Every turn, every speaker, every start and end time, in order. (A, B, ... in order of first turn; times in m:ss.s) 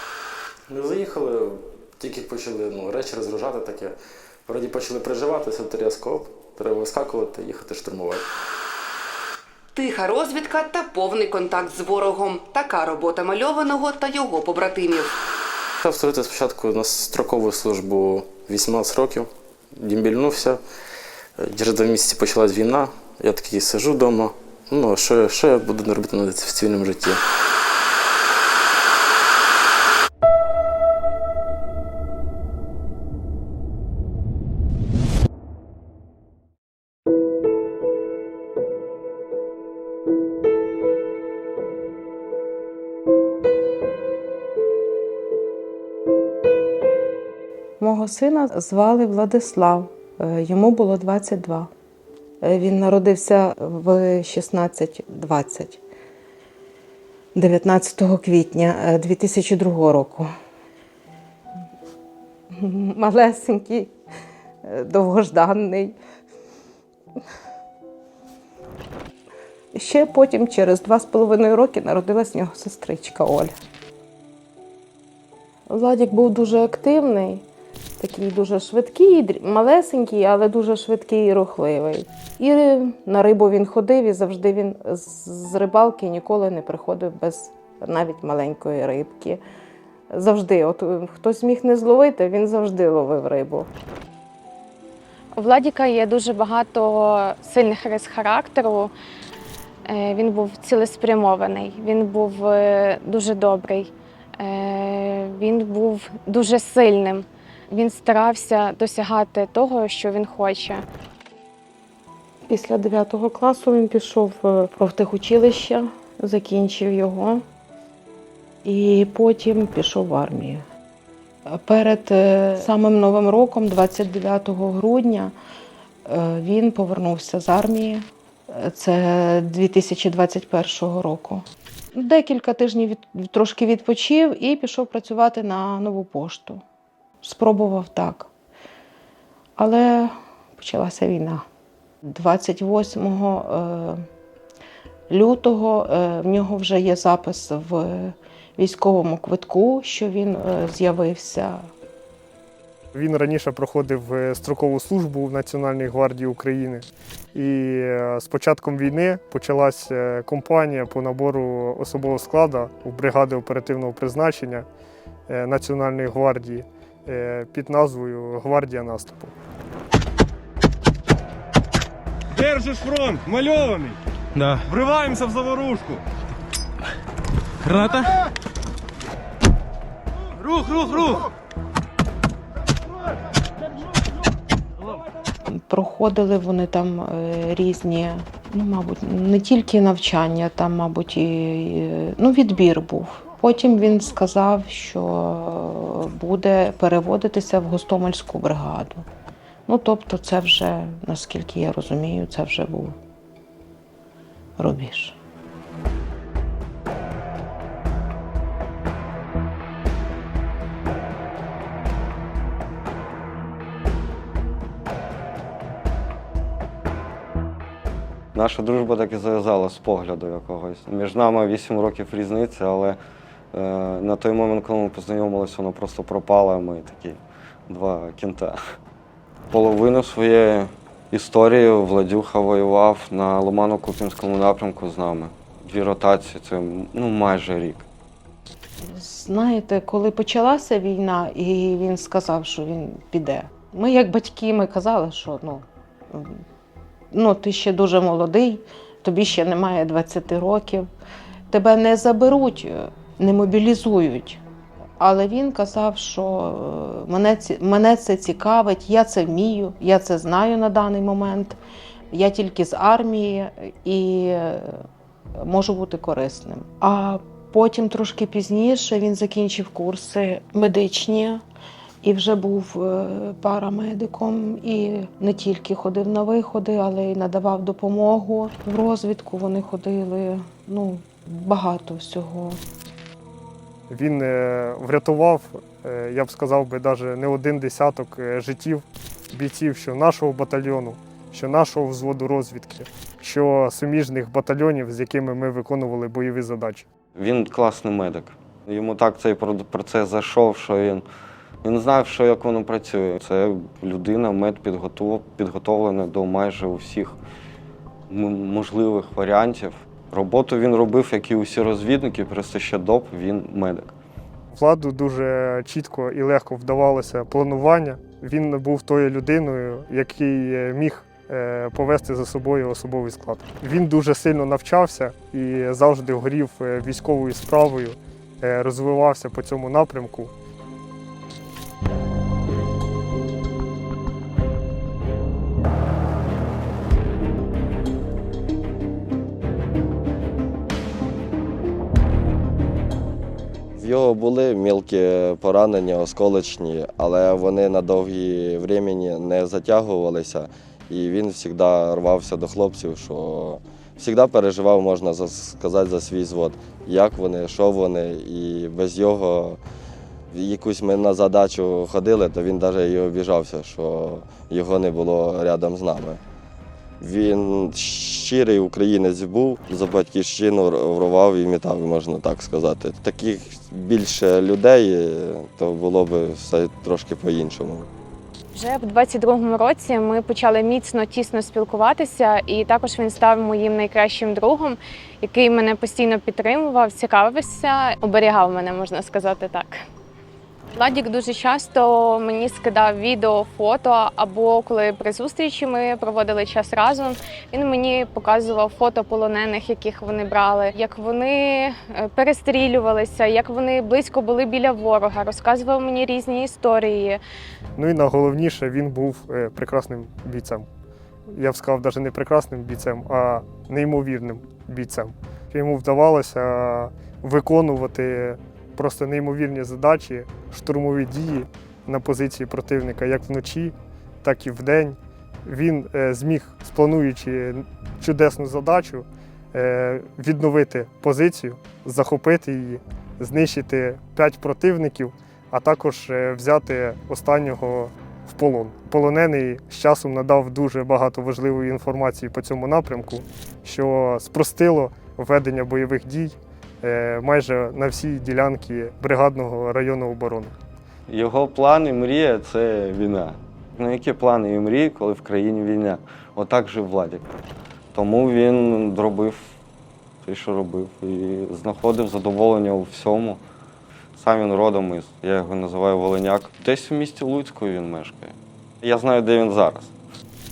0:00.7-0:03.9 A
0:04.4-0:08.2 A
0:09.8-0:15.0 B
0:15.8-0:20.6 A
0:21.4-0:27.2 A
0:47.8-0:51.7 C
0:52.4-0:55.8 C
0:57.3-1:00.3 C
1:02.5-1:03.9 C
1:04.6-1:06.0 C
1:09.7-1:13.5 C
1:15.7-1:17.4 C
1:18.0-1:29.4 C
1:30.1-1:33.7 C
1:35.4-1:38.9 D
1:39.9-1:50.8 D
1:52.5-1:57.4 C
1:58.6-2:00.6 C
2:01.5-2:05.3 C
2:06.0-2:16.6 C
2:17.2-2:18.3 C
2:19.6-2:21.4 C
2:22.0-2:24.0 C
2:25.1-2:31.7 C
2:32.9-2:44.6 E
2:45.3-2:49.3 E
2:52.7-2:53.9 F
2:54.7-2:55.9 F
3:05.5-3:19.0 C
3:19.7-3:23.0 C
3:24.6-3:25.2 C
3:38.3-3:43.0 G
3:43.5-3:48.6 G
3:49.5-3:57.9 G
3:58.9-4:06.4 C
4:07.1-4:10.9 C
4:11.5-4:14.4 C
4:15.0-4:21.6 C
4:22.1-4:24.8 C
4:25.4-4:31.4 C
4:32.0-4:42.6 C
4:43.9-4:56.8 E
4:57.1-5:01.0 G
5:01.6-5:07.2 G
5:08.1-5:13.9 G
5:14.5-5:30.3 E
5:43.8-5:59.6 H
6:00.3-6:06.2 H
6:07.0-6:17.9 H
6:18.5-6:29.8 D
6:30.7-6:47.2 D
6:47.8-6:50.7 E
6:51.3-7:30.5 E
7:31.1-7:37.3 G
7:37.9-7:39.5 G
7:40.2-7:43.4 G
7:44.1-7:49.9 G